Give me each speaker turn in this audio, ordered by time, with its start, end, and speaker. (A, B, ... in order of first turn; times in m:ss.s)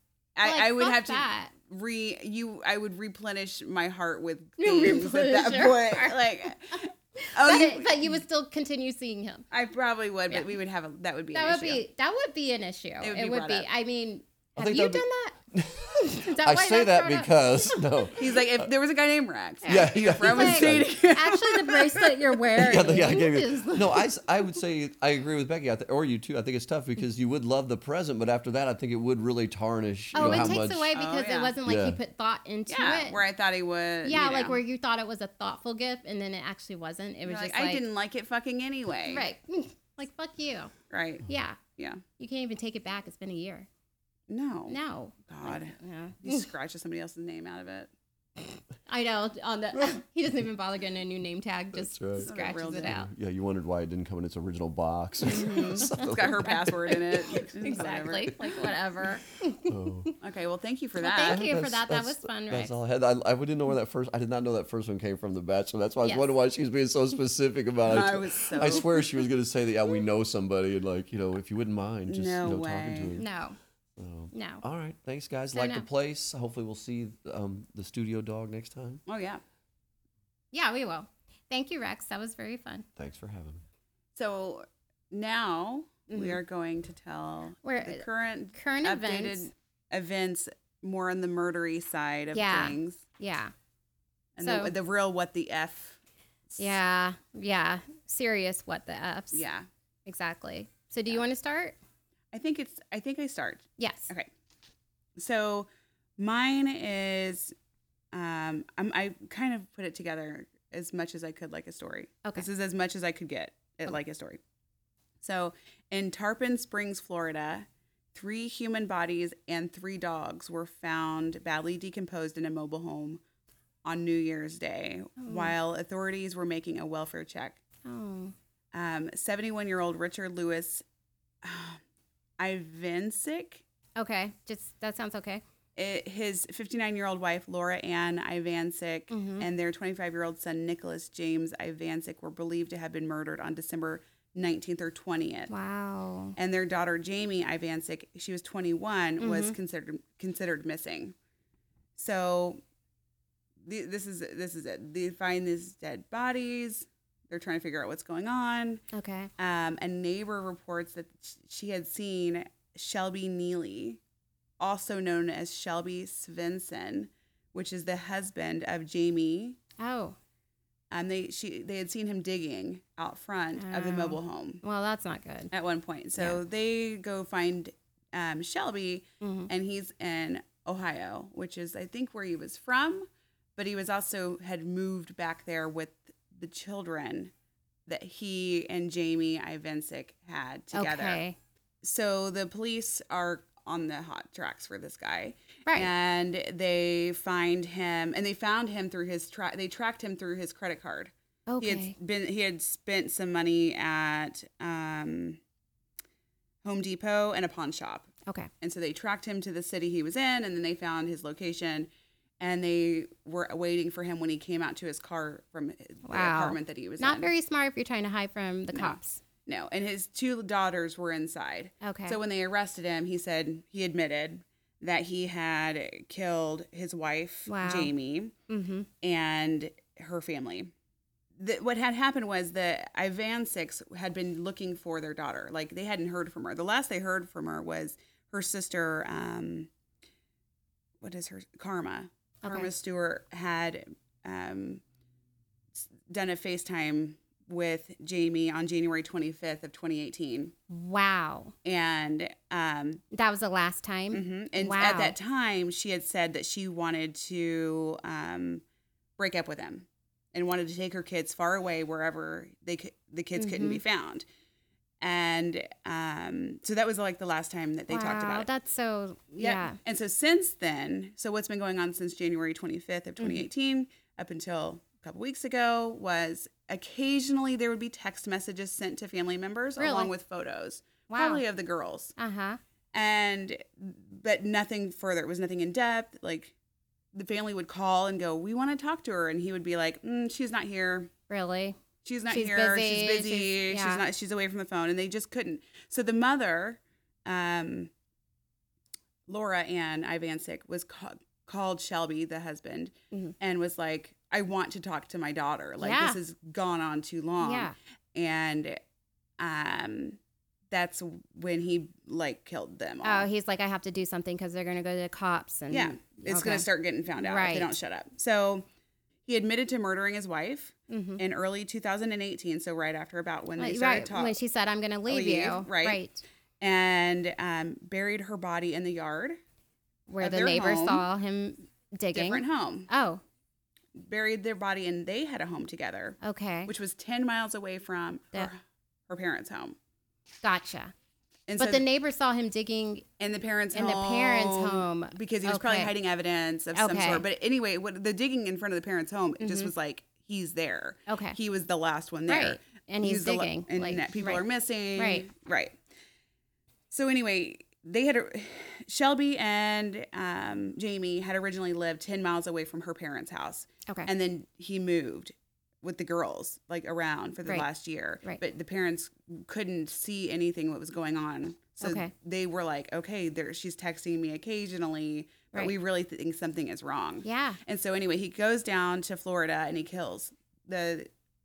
0:00.4-0:08.2 A
0:00.4-0:01.5 B
0:04.6-0:06.2 B
0:07.2-0:09.5 B
0:09.5-0:11.8 A
0:11.3-0:15.4 B
0:13.0-0:13.7 A
0:14.6-0:18.6 C
0:15.9-0:17.8 B
0:18.2-0:22.2 A
0:19.6-0:24.1 B
0:19.7-0:21.0 C
0:22.5-0:30.9 C
0:30.1-0:33.2 B
0:30.2-0:31.6 A
0:31.6-0:32.0 C
0:32.7-0:34.6 A
0:34.0-0:37.8 B
0:37.3-0:39.3 A
0:39.1-0:40.7 B
0:40.9-0:41.2 A
0:41.3-0:41.6 B
0:41.8-0:42.0 A
0:42.2-0:43.7 B
0:44.3-0:47.9 A
0:44.7-0:46.5 B
0:48.9-0:53.1 B
0:51.8-0:52.3 C
0:52.2-0:53.0 A
0:52.8-0:57.0 C
0:55.2-0:58.4 A
0:55.5-0:56.0 B
0:57.3-1:00.1 B
0:59.6-1:00.1 C
1:00.2-1:01.5 A
1:01.0-1:02.7 B
1:01.2-1:13.3 C
1:06.0-1:06.3 B
1:07.8-1:09.0 A
1:12.1-1:13.2 A
1:13.2-1:13.6 B
1:14.0-1:19.0 C
1:14.3-1:14.6 B
1:15.5-1:15.9 B
1:19.1-1:19.4 A
1:20.5-1:22.9 B
1:23.0-1:23.6 C
1:24.2-1:33.0 A
1:26.1-1:26.4 B
1:27.6-1:29.5 B
1:32.3-1:33.5 B
1:34.4-1:36.0 A
1:34.4-1:34.7 B
1:36.6-1:39.5 B
1:39.3-1:39.7 A
1:40.1-1:41.8 B
1:42.3-1:44.3 A
1:43.8-1:44.1 B
1:45.2-1:47.6 A
1:48.1-1:54.4 A
1:55.2-2:03.2 A
2:03.8-2:07.6 A
2:05.2-2:05.6 B
2:07.8-2:08.4 B
2:08.7-2:10.8 A
2:11.4-2:11.8 A
2:12.4-2:13.6 A
2:14.0-2:15.4 B
2:15.8-2:25.5 A
2:19.1-2:19.5 B
2:25.5-2:26.4 B
2:26.4-2:31.2 A
2:29.2-2:29.6 B
2:32.0-2:32.6 A
2:33.6-2:38.8 A
2:38.9-2:39.3 B
2:39.4-2:44.0 A
2:44.6-2:49.6 A
2:49.8-2:50.2 B
2:50.9-2:54.6 A
2:53.6-2:55.5 B
2:55.5-3:07.3 A
2:59.2-2:59.5 B
3:07.9-3:11.2 A
3:10.7-3:11.4 B
3:11.8-3:25.4 A
3:21.5-3:22.0 B
3:26.6-3:28.1 A
3:28.6-3:37.3 A
3:36.1-3:39.2 B
3:38.7-3:48.3 A
3:41.8-3:42.2 B
3:47.5-3:47.9 B
3:48.5-3:48.9 B
3:49.0-3:50.7 A
3:51.4-3:59.7 A
4:01.0-4:04.8 A
4:02.4-4:02.7 B
4:05.8-4:10.6 A
4:10.7-4:11.5 B
4:11.6-4:13.0 A
4:13.1-4:15.2 B
4:14.1-4:18.6 A
4:19.2-4:24.3 A
4:23.4-4:23.8 B
4:25.0-4:28.5 A
4:27.9-4:29.8 B
4:29.4-4:42.1 A
4:39.8-4:40.1 B
4:41.1-4:41.4 B
4:42.2-4:42.6 B
4:42.9-4:46.6 A
4:47.1-4:51.1 A
4:51.3-4:51.8 B
4:52.0-4:57.9 A
4:52.3-4:54.0 B
4:59.3-5:08.8 A
5:05.8-5:06.2 B
5:07.4-5:07.7 B
5:09.4-5:10.2 A
5:10.7-5:13.3 A
5:13.0-5:16.7 B
5:15.7-5:18.7 A
5:17.2-5:17.8 B
5:19.3-5:24.4 A
5:20.9-5:21.2 B
5:23.6-5:26.2 B
5:25.1-5:26.0 A
5:26.6-5:29.4 A
5:30.1-5:33.2 B
5:30.2-5:31.0 A
5:32.1-5:32.9 A
5:34.0-5:39.8 A
5:36.2-5:36.7 B
5:40.4-5:40.9 B
5:41.5-5:41.8 A
5:41.6-5:43.1 B
5:43.2-5:55.8 A
5:43.7-5:45.9 B
5:46.7-5:47.2 B
5:49.4-5:49.7 B
5:51.1-5:51.4 B
5:52.3-5:54.4 B
5:55.0-5:55.3 B
5:56.9-6:21.1 A
6:11.8-6:12.1 B
6:17.2-6:17.6 B